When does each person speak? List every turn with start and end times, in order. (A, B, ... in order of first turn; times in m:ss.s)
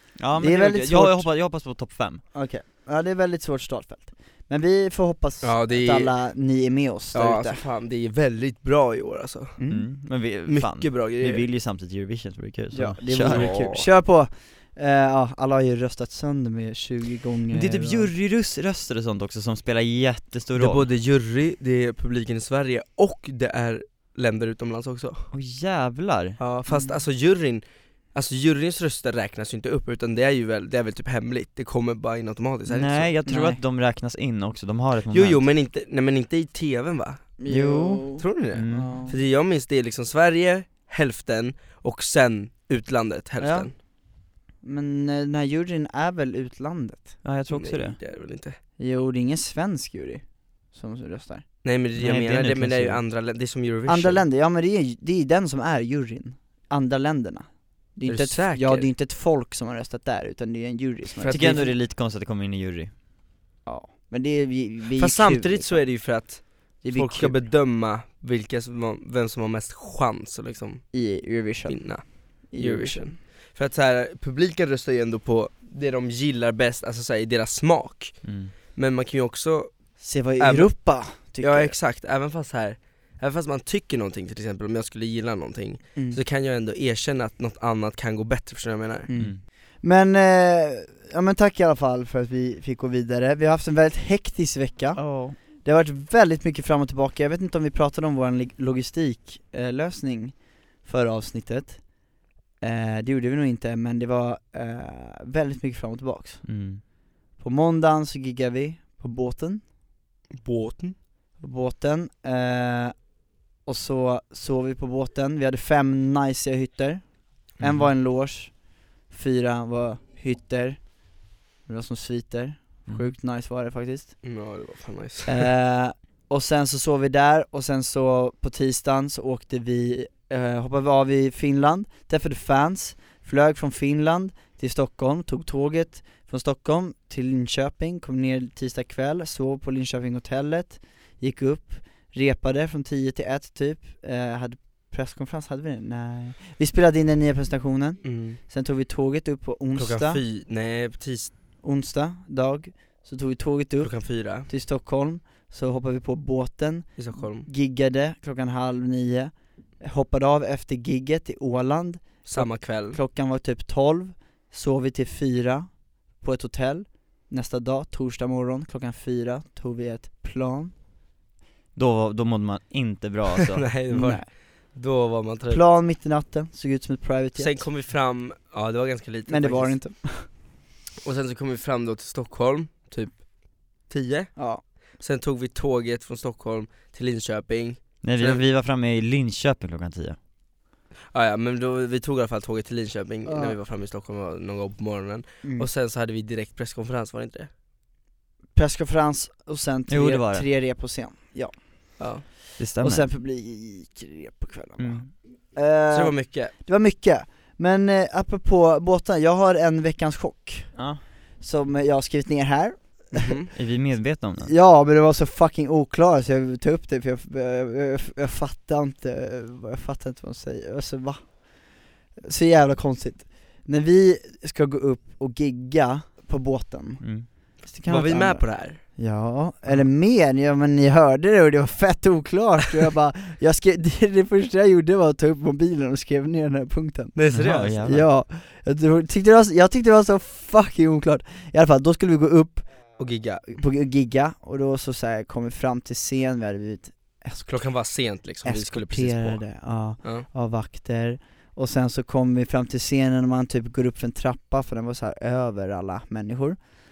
0:00.2-0:02.2 A
0:00.4-0:01.3 B
0:02.3-0:07.6 B
0:05.4-0:06.2 C
0:07.1-0:09.6 C
0:09.6-0:09.9 B
0:09.7-0:13.6 A
0:10.5-0:11.5 C
0:12.7-0:18.1 B
0:13.2-0:13.9 C
0:17.5-0:20.9 A
0:20.6-0:25.3 C
0:25.3-0:26.4 A
0:26.4-0:27.6 C
0:26.7-0:27.0 B
0:28.1-0:33.2 C
0:32.7-0:35.4 A
0:33.3-0:33.6 B
0:35.1-0:37.4 C
0:37.4-0:39.2 B
0:37.5-0:39.0 A
0:38.2-0:43.7 C
0:43.4-0:43.8 B
0:44.6-0:47.2 B
0:47.2-0:48.0 A
0:47.5-0:48.6 C
0:48.8-0:51.4 B
0:51.6-0:54.2 C
0:52.0-0:53.0 A
0:53.9-1:01.7 B
0:58.1-0:58.9 C
1:01.2-1:01.7 C
1:01.3-1:02.9 A
1:03.6-1:05.9 B
1:05.0-1:11.0 C
1:06.8-1:07.4 B
1:10.9-1:13.2 B
1:11.7-1:19.9 C
1:18.2-1:18.5 A
1:20.0-1:21.8 B
1:20.4-1:29.1 C
1:29.1-1:41.9 B
1:29.2-1:29.4 A
1:35.0-1:35.3 A
1:42.6-1:46.5 B
1:46.4-1:46.8 A
1:47.4-1:49.6 B
1:50.3-1:51.0 C
1:51.4-1:53.0 B
1:53.7-2:04.2 B
1:57.6-1:57.9 A
2:04.2-2:05.5 C
2:05.3-2:30.2 B
2:28.0-2:28.4 C
2:29.8-2:31.3 C
2:31.6-2:50.7 B
2:33.8-2:34.5 C
2:37.0-2:37.5 C
2:42.2-2:43.0 C
2:51.8-2:53.7 A
2:53.5-2:55.6 C
2:53.9-2:54.3 B
2:55.5-2:57.7 B
2:57.4-2:59.8 C
2:59.3-3:00.3 B
3:01.0-3:03.3 C
3:03.8-3:04.5 C
3:04.4-3:04.6 B
3:05.0-3:08.4 C
3:08.0-3:10.2 A
3:11.1-3:17.5 C
3:13.3-3:13.6 B
3:18.6-3:22.1 B
3:19.9-3:20.5 A
3:22.0-3:22.2 C
3:22.6-3:23.1 A
3:22.8-3:30.8 B
3:24.8-3:25.1 A
3:25.9-3:26.5 C
3:30.8-3:31.0 A
3:31.4-3:33.3 B
3:33.1-3:33.5 C
3:33.6-3:34.5 A
3:34.4-3:41.4 B
3:42.2-3:57.2 B
3:47.0-3:47.3 A
3:47.9-3:48.8 C
3:57.2-3:57.9 C
3:57.3-3:58.1 A
3:57.8-4:02.7 B
4:03.0-4:03.5 C
4:03.6-4:07.6 B
4:07.5-4:09.4 C
4:08.4-4:16.6 B